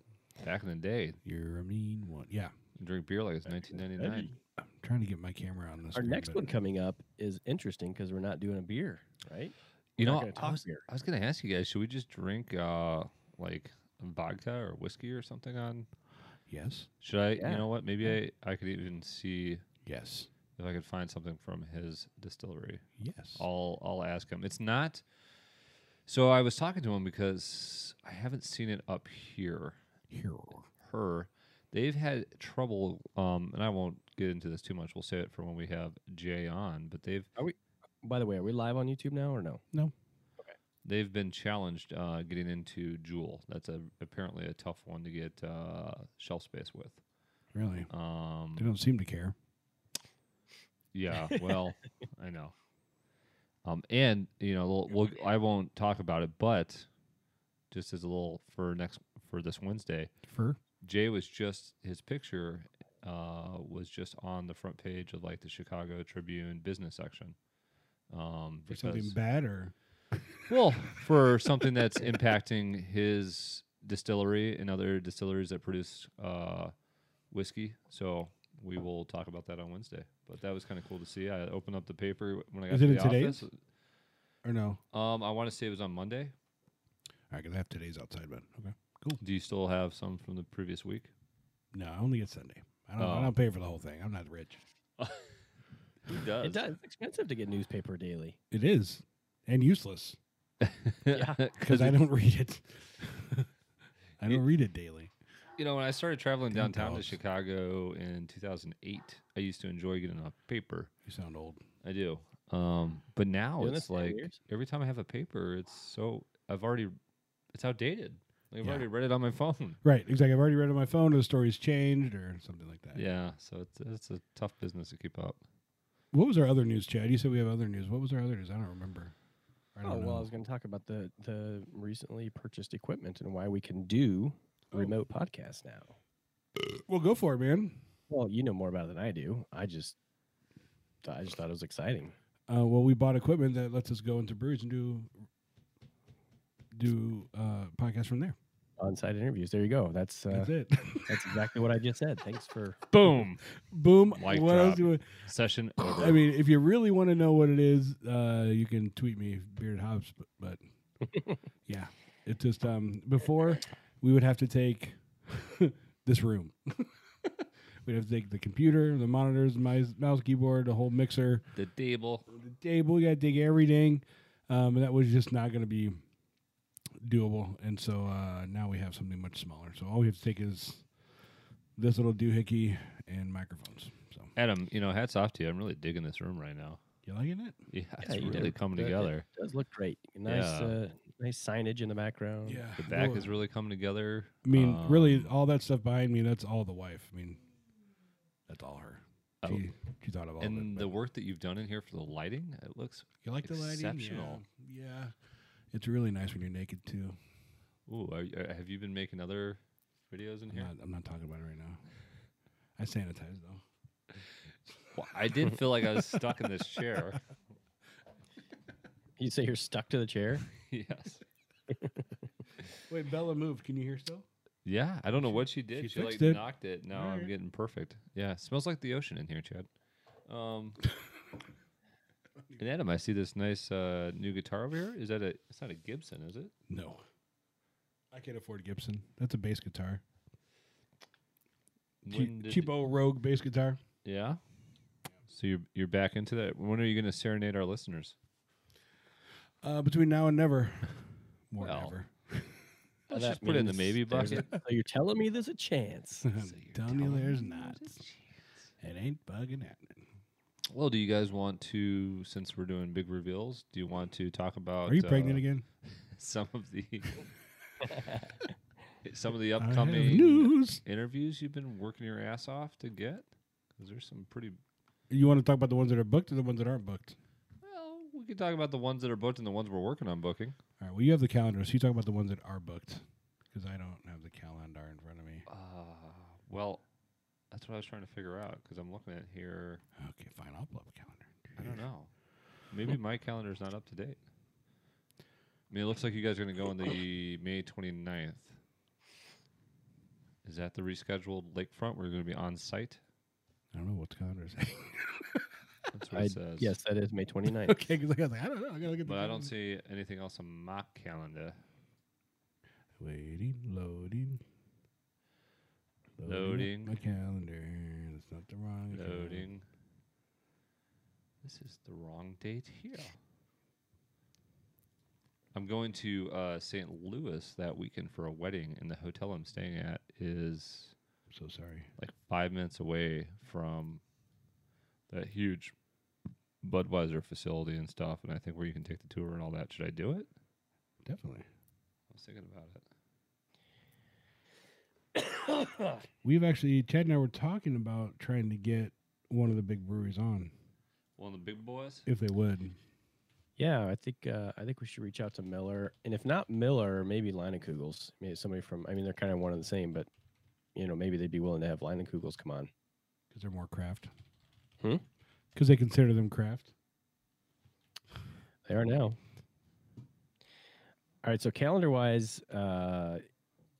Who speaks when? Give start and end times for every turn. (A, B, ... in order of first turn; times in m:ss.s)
0:00.4-0:01.2 A
0:01.2-0:02.5 B
0:02.8-0:04.3 A
0:03.5-0:04.3 C
0:04.6-0:06.4 B
0:05.9-0:10.8 C
0:10.0-0:15.9 A
0:16.5-0:16.9 B
0:17.0-0:19.6 A
0:17.4-0:17.6 C
0:19.8-0:20.3 B
0:20.6-0:22.8 A
0:23.0-0:23.4 B
0:23.4-0:25.0 A
0:26.1-0:29.8 A
0:30.1-0:30.7 B
0:30.8-0:37.3 A
0:37.4-0:39.6 C
0:40.8-0:47.0 A
0:47.5-0:47.9 B
0:47.9-0:48.7 A
0:48.5-0:49.3 B
0:50.9-0:52.5 A
0:53.6-0:56.9 A
0:57.7-1:00.1 A
1:00.3-1:00.6 B
1:00.8-1:07.4 A
1:08.1-1:09.2 A
1:08.7-1:09.7 B
1:10.5-1:16.7 A
1:17.3-1:23.5 A
1:22.7-1:23.4 B
1:24.4-1:24.8 B
1:24.9-1:26.3 A
1:27.3-1:29.2 B
1:29.2-1:31.1 A
1:31.7-1:34.6 B
1:33.0-1:33.3 A
1:35.0-1:35.3 A
1:36.1-1:36.6 A
1:36.4-1:38.4 C
1:38.5-1:40.2 B
1:40.6-1:42.0 A
1:41.1-1:41.4 C
1:41.6-1:43.5 B
1:44.2-1:45.1 B
1:45.6-1:50.9 A
1:46.5-1:47.2 B
1:51.0-1:51.6 B
1:51.8-1:57.0 A
1:53.6-1:54.4 C
1:57.5-1:59.8 A
1:59.8-2:03.0 B
2:02.9-2:05.4 A
2:06.1-2:09.1 B
2:09.7-2:10.3 B
2:09.8-2:15.9 C
2:16.6-2:17.8 B
2:18.1-2:20.0 C
2:21.0-2:22.1 C
2:22.5-2:25.1 B
2:26.7-2:28.4 B
2:28.8-2:30.5 C
2:30.3-2:31.5 B
2:31.1-2:32.8 C
2:32.9-2:33.4 A
2:33.6-2:35.2 B
2:34.1-2:36.2 A
2:35.8-2:40.6 B
2:41.6-2:51.4 B
2:51.5-2:52.2 A
2:52.3-2:56.0 B
2:57.0-3:00.8 B
3:01.8-3:04.3 B
3:04.4-3:06.8 A
3:07.0-3:07.6 B
3:07.7-3:09.2 A
3:08.0-3:12.6 C
3:10.2-3:10.8 A
3:12.4-3:13.4 B
3:12.8-3:15.3 A
3:14.4-3:17.4 B
3:18.5-3:20.9 B
3:20.4-3:24.4 A
3:23.2-3:25.1 B
3:25.7-3:27.2 B
3:27.9-3:30.7 A
3:30.5-3:31.8 B
3:32.8-3:33.6 B
3:34.9-3:37.2 A
3:39.2-3:40.4 C
3:40.6-3:41.2 A
3:42.9-3:44.2 B
3:44.6-3:49.7 A
3:45.2-3:47.3 B
3:50.3-3:50.8 A
3:52.6-3:56.5 A
3:56.7-3:57.0 B
3:58.1-4:00.0 B
4:02.0-4:02.7 A
4:02.0-4:03.8 B
4:04.0-4:04.4 A
4:05.3-4:08.1 A
4:09.6-4:12.6 B
4:11.6-4:11.9 A
4:13.1-4:14.5 A
4:13.1-4:16.3 C
4:14.3-4:14.5 B
4:16.2-4:18.0 B
4:16.3-4:18.4 A
4:18.8-4:20.0 B
4:20.7-4:25.4 A
4:24.8-4:25.6 B
4:26.1-4:27.2 A
4:29.0-4:34.6 A
4:29.6-4:30.8 B
4:35.1-4:37.2 B
4:37.6-4:40.6 A
4:40.8-4:45.4 B
4:45.5-4:46.8 A
4:47.5-4:49.8 A
4:50.0-4:51.8 B
4:51.6-4:52.1 A
4:52.7-4:54.2 A
4:55.7-4:58.6 A
5:00.4-5:03.0 A
5:03.7-5:05.5 B
5:05.9-5:06.7 A
5:06.1-5:07.8 C
5:07.6-5:09.5 B
5:09.0-5:11.6 A
5:13.0-5:14.4 B
5:16.2-5:19.5 B
5:16.2-5:16.9 A
5:18.9-5:19.6 A
5:21.4-5:23.2 A
5:25.5-5:30.9 A
5:31.3-5:31.9 B
5:32.0-5:34.0 A
5:35.1-5:35.7 A
5:36.6-5:40.3 A
5:41.0-5:41.4 B
5:42.1-5:42.8 A
5:46.2-5:50.5 B
5:51.2-5:52.0 A
5:52.0-5:52.8 B
5:53.6-6:00.1 C
6:00.7-6:02.7 C
6:03.3-6:04.1 B
6:05.5-6:06.7 B
6:08.6-6:09.2 C
6:11.2-6:13.2 C